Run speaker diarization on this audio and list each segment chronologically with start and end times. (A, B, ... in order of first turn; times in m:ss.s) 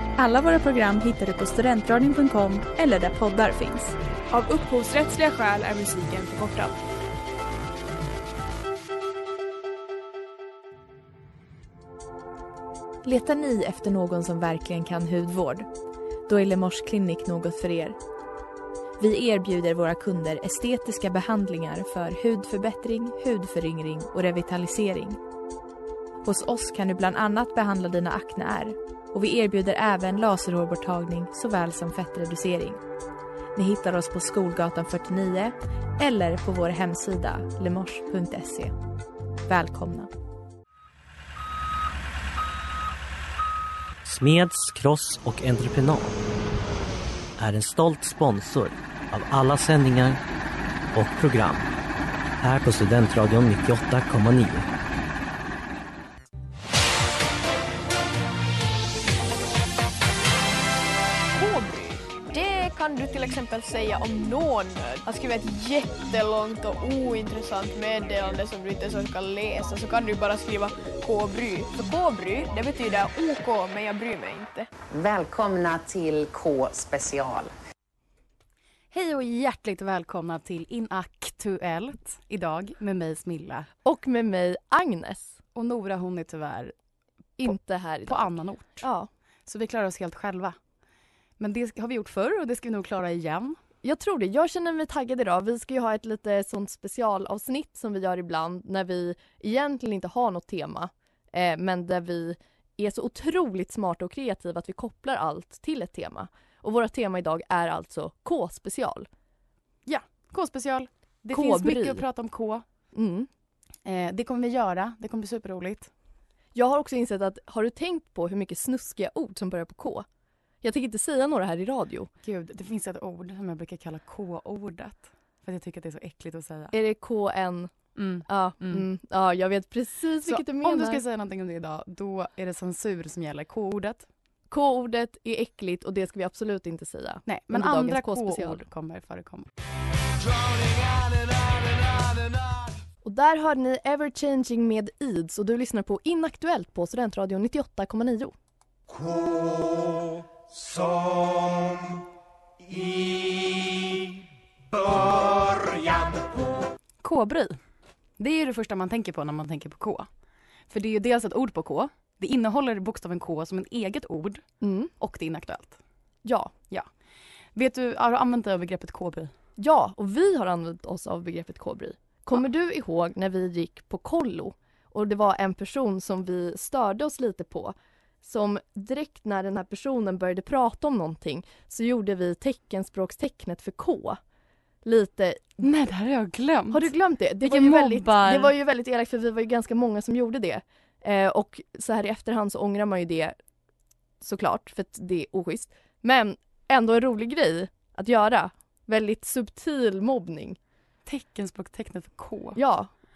0:00.2-0:04.0 A
0:04.3-0:06.8 B
0:13.0-0:15.7 A
0:16.3-0:18.0 A
0:19.0-0:25.2 A
0:26.2-0:32.8 A
0:33.5-0:38.7 A
0:39.5-0:40.1 A
0:44.0-0:46.2 C
0:47.4-0:50.2 C
0:50.9-0:51.7 C
0:52.4-0:54.7 C
1:01.3-1:14.7 D
1:14.9-1:17.5 E
1:18.9-1:23.7 F
1:23.8-1:25.4 G
1:25.5-1:26.7 F
1:27.4-1:29.1 G
1:28.1-1:28.8 F
1:29.4-1:30.6 F
1:31.4-1:33.6 F
1:33.8-1:49.1 G
1:49.8-1:52.6 F
1:51.3-1:52.0 G
1:52.9-1:53.3 G
1:53.8-1:55.9 F
1:56.5-2:00.0 G
2:00.6-2:02.1 G
2:02.2-2:06.7 F
2:06.7-2:07.7 G
2:07.9-2:08.9 F
2:08.2-2:11.0 G
2:10.2-2:14.0 F
2:14.5-2:18.6 G
2:17.2-2:19.5 F
2:23.0-2:28.3 G
2:37.0-2:37.6 F
2:38.2-2:40.1 F
2:40.7-2:44.4 F
2:44.6-2:44.9 G
2:45.0-2:45.8 F
2:46.2-2:46.5 G
2:47.5-2:49.3 F
2:49.6-3:04.2 G
3:04.8-3:05.6 G
3:05.6-3:08.5 F
3:06.7-3:13.3 G
3:14.2-3:20.6 G
3:21.0-3:22.6 F
3:22.6-3:22.9 G